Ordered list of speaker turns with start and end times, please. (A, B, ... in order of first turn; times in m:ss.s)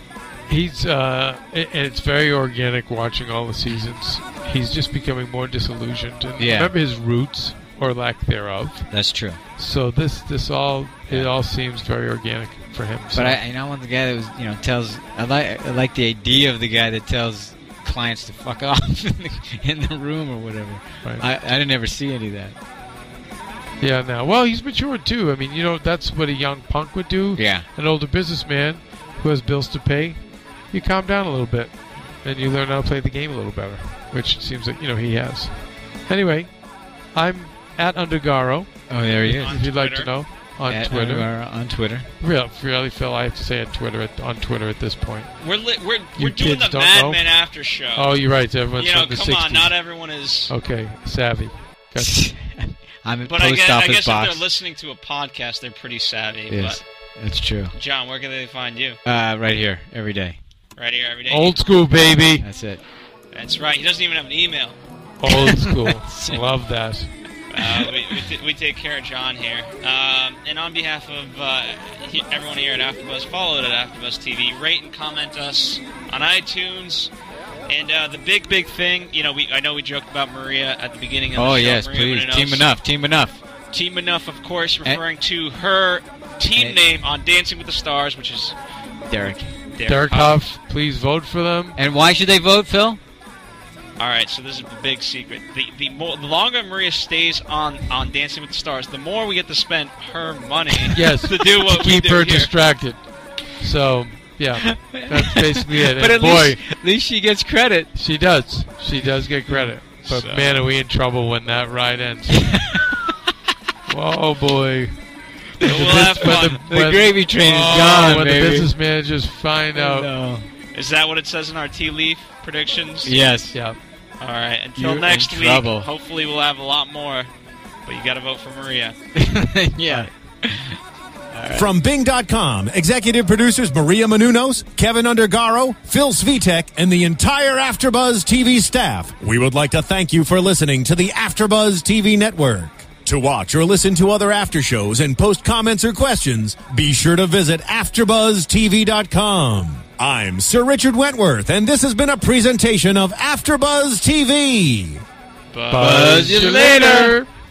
0:00.5-0:08.9 A
0:03.7-0:03.9 B
0:06.4-0:06.7 B
0:08.9-0:09.4 B
0:09.6-0:13.4 A
0:13.1-0:22.6 B
0:23.8-0:30.2 A
0:27.4-0:27.7 B
0:30.7-0:36.5 A
0:37.1-0:41.3 A
0:38.9-0:39.6 B
0:39.3-0:40.1 C
0:40.7-0:42.1 B
0:42.2-0:45.3 A
0:45.4-0:50.5 C
0:46.2-0:47.3 A
0:48.0-0:49.7 A
0:50.5-0:52.3 A
0:52.0-0:54.4 B
0:53.3-0:56.8 C
0:56.5-0:57.8 B
0:57.8-0:59.0 C
0:59.0-1:00.4 B
1:00.8-1:01.6 C
1:01.3-1:02.5 A
1:02.4-1:02.8 B
1:03.3-1:04.8 C
1:05.2-1:07.1 A
1:05.3-1:06.4 B
1:07.5-1:17.1 C
1:07.6-1:08.3 B
1:17.7-1:22.7 C
1:21.4-1:23.4 B
1:23.7-1:28.6 C
1:29.1-1:29.6 B
1:29.8-1:30.4 C
1:29.9-1:31.8 A
1:31.8-1:33.0 B
1:34.0-1:42.5 C
1:40.9-1:46.6 A
1:44.7-1:47.9 B
1:47.9-1:52.6 A
1:50.0-1:50.6 C
1:52.4-1:53.1 B
1:53.9-1:55.0 A
1:55.6-1:58.7 B
1:55.6-2:00.1 A
1:55.6-1:56.6 C
1:59.7-2:00.5 B
2:00.7-2:03.2 C
2:03.0-2:03.6 B
2:04.2-2:07.3 C
2:04.8-2:05.9 B
2:07.9-2:09.0 C
2:09.2-2:10.8 B
2:11.3-2:11.7 B
2:11.6-2:35.0 D
2:35.5-2:36.3 C
2:35.7-2:37.3 A
2:35.7-2:37.2 B